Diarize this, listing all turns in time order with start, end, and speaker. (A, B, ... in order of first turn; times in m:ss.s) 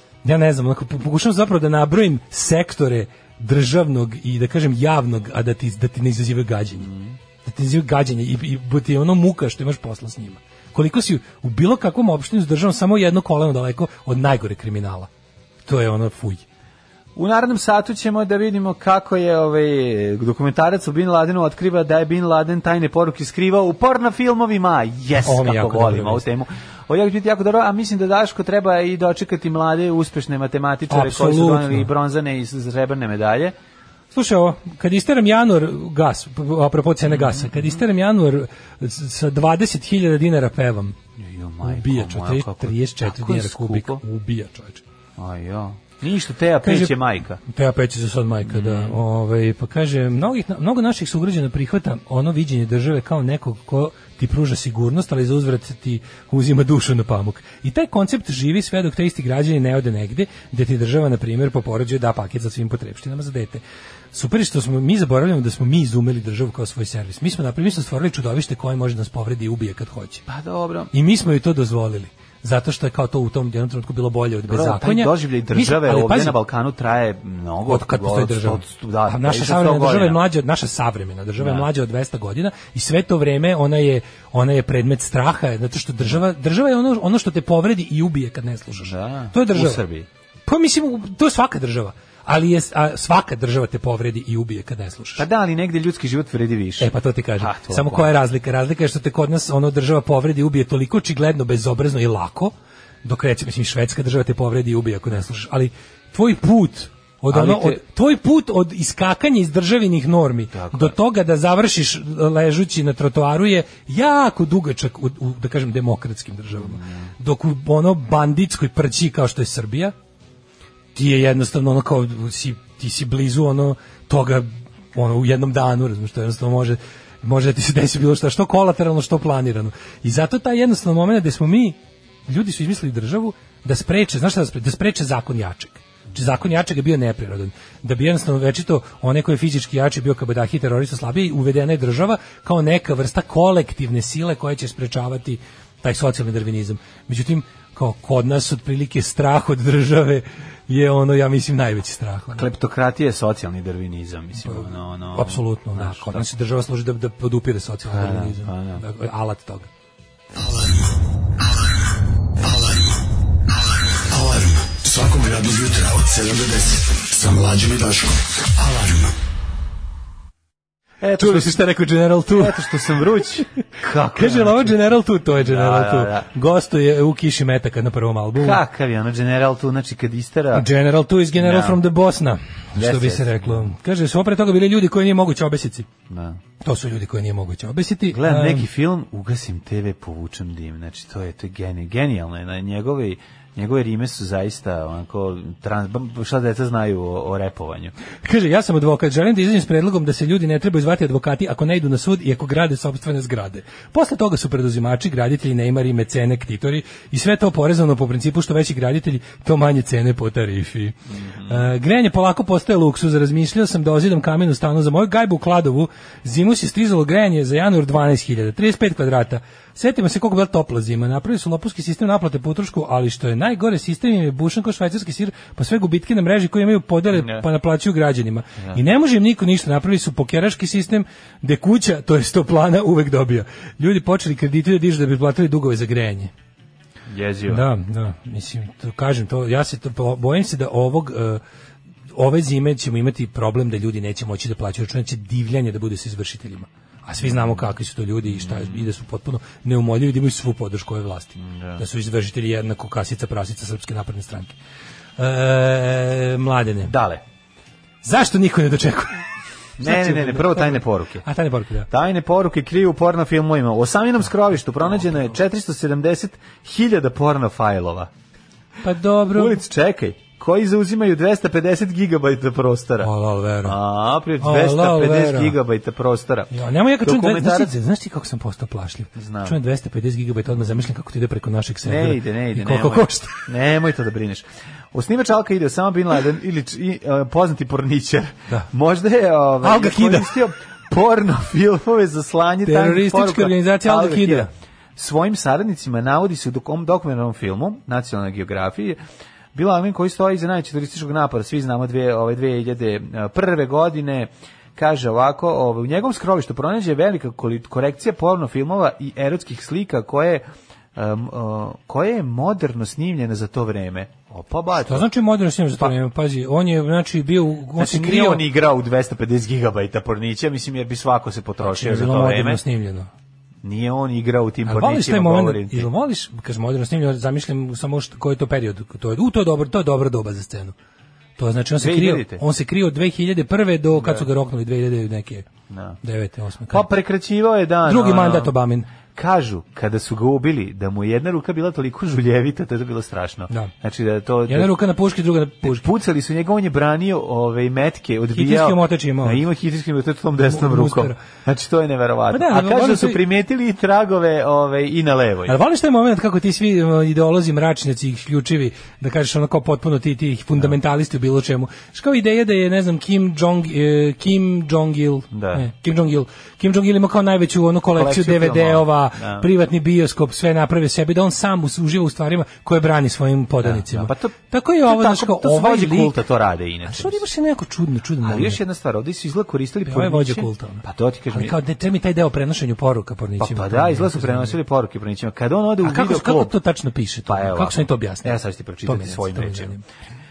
0:00.2-0:06.9 A
0:06.8-0:07.2 B
0:07.4-0:15.1 A
0:15.6-0:16.4 A
0:17.2-0:33.5 B
0:25.2-0:26.2 A
0:30.9-0:31.9 A
0:34.1-0:40.9 A
0:37.0-0:37.8 B
0:41.2-0:44.0 B
0:41.6-0:44.8 A
0:45.2-0:47.4 B
0:46.6-1:03.6 A
0:48.5-0:49.0 B
1:04.1-1:10.2 A
1:10.3-1:10.9 B
1:10.9-1:16.4 A
1:14.4-1:20.2 B
1:17.6-1:29.8 A
1:21.4-1:21.7 B
1:28.8-1:30.1 B
1:30.4-1:35.2 A
1:35.2-1:38.1 B
1:36.8-1:59.9 A
1:47.3-1:47.8 B
1:50.5-1:51.0 B
1:56.5-1:57.1 B
2:00.9-2:32.5 A
2:32.3-2:36.2 B
2:34.4-2:39.7 A
2:37.9-2:38.8 B
2:42.4-2:42.8 C
2:44.1-2:49.1 C
2:51.0-2:51.6 B
2:51.2-2:52.6 A
2:52.3-2:54.8 B
2:54.1-2:58.6 A
2:55.4-2:56.3 B
2:58.4-3:00.7 B
3:00.5-3:05.9 A
3:01.4-3:01.8 B
3:02.7-3:03.7 B
3:06.1-3:06.4 B
3:06.6-3:08.7 A
3:08.1-3:17.9 B
3:18.2-3:56.3 A
3:31.1-3:31.7 B
3:47.1-3:47.4 B
3:57.1-3:57.6 B
3:57.5-4:01.4 A
4:02.1-4:14.6 A
4:07.2-4:07.6 B
4:08.2-4:08.9 B
4:11.4-4:11.8 B
4:15.2-4:16.9 A
4:16.8-4:17.2 B
4:18.0-4:19.2 A
4:19.8-4:21.2 B
4:19.8-4:21.9 A
4:21.9-4:28.1 B
4:28.8-4:29.6 A
4:29.3-4:33.1 B
4:33.0-4:33.8 A
4:33.6-4:37.7 B
4:34.4-4:35.6 A
4:36.5-4:43.5 A
4:39.1-4:39.6 B
4:41.8-4:59.0 B
4:49.6-4:50.4 A
4:52.6-4:54.5 A
4:59.5-5:15.1 B
5:14.8-5:18.4 A
5:17.8-5:22.6 B
5:21.6-5:23.1 A
5:23.6-5:25.9 B
5:24.6-5:30.7 A
5:31.4-5:35.5 A
5:31.8-5:32.4 B
5:33.9-5:34.3 B
5:35.7-5:36.0 B
5:36.0-5:36.8 A
5:36.7-5:38.5 B
5:37.8-5:38.9 A
5:39.1-5:44.8 B
5:44.5-5:45.9 A
5:45.6-5:55.6 B
5:48.3-5:49.4 A
5:50.4-5:51.2 A
5:52.3-5:53.2 A
5:55.4-6:16.2 A
6:05.3-6:05.7 B
6:07.9-6:09.5 B
6:13.6-6:17.2 B
6:16.8-6:18.6 A
6:18.2-6:21.6 B
6:19.8-6:24.6 A
6:23.4-6:26.5 B
6:25.8-6:29.8 A
6:27.3-6:29.8 B